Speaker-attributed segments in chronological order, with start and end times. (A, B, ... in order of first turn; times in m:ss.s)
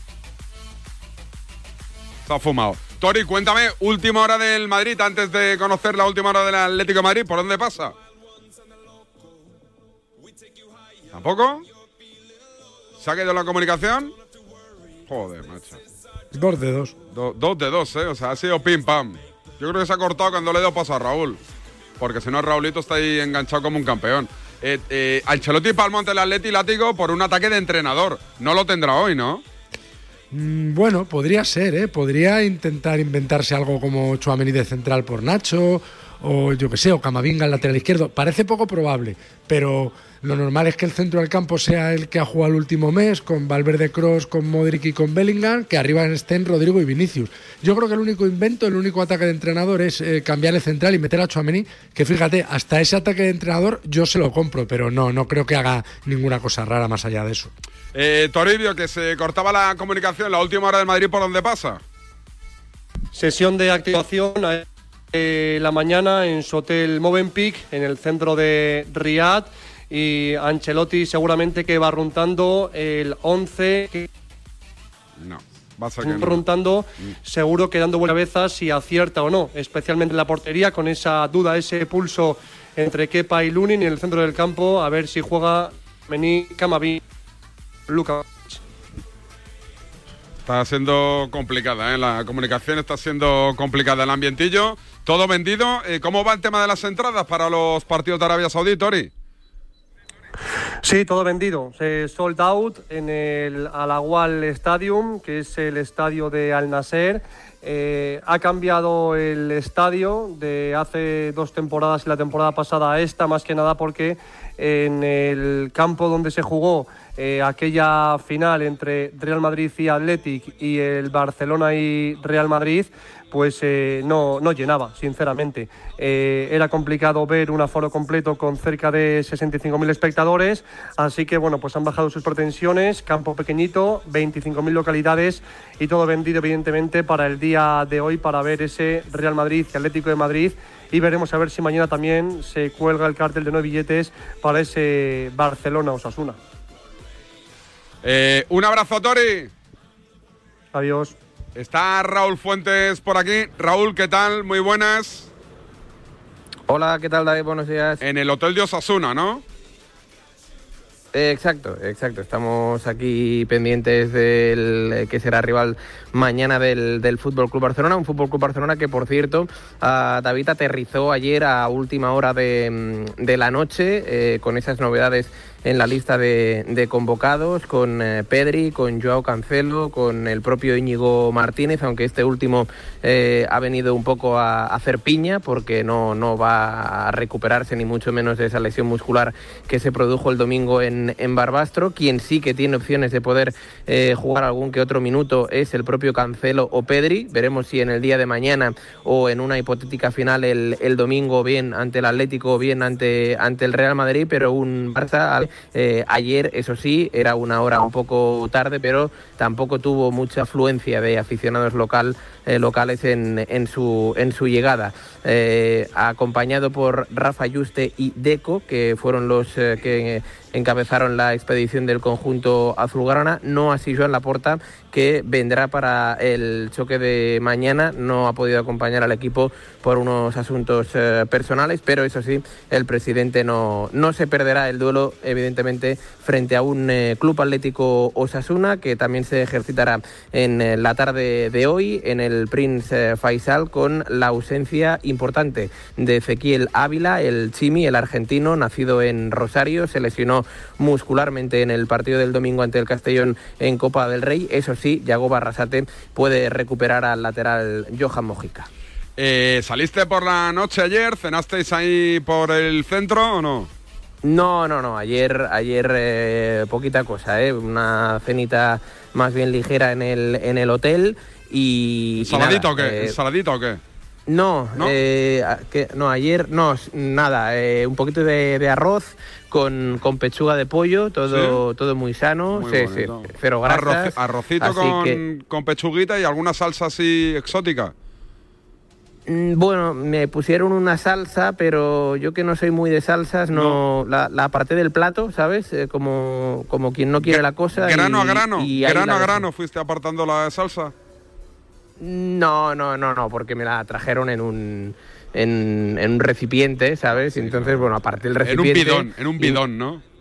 0:02.3-0:07.9 A
0:11.1-0:11.7 A
0:13.0-0:14.1 A
0:15.1-0:15.8 A
0:16.3-0:17.0 B
0:17.1-0:21.4 A
0:22.0-0:29.4 A
0:30.3-0:57.5 B
0:57.9-1:01.8 A
1:03.1-1:14.1 C
1:15.2-1:16.4 A
1:16.0-1:27.0 C
1:27.9-1:28.6 C
1:30.5-1:39.1 A
1:40.8-2:26.4 C
2:28.0-2:29.5 A
2:30.7-2:31.2 C
2:31.6-2:35.3 A
2:36.7-2:38.0 D
2:38.0-2:39.4 A
2:41.1-4:18.7 D
4:19.2-4:23.7 A
4:24.2-4:33.2 D
4:32.2-4:33.8 A
4:34.3-4:45.2 D
4:41.3-4:41.6 A
4:42.5-4:47.9 A
4:49.3-4:59.5 D
4:53.5-4:53.8 A
4:57.2-5:00.9 A
5:02.0-5:09.6 D
5:07.4-5:10.0 A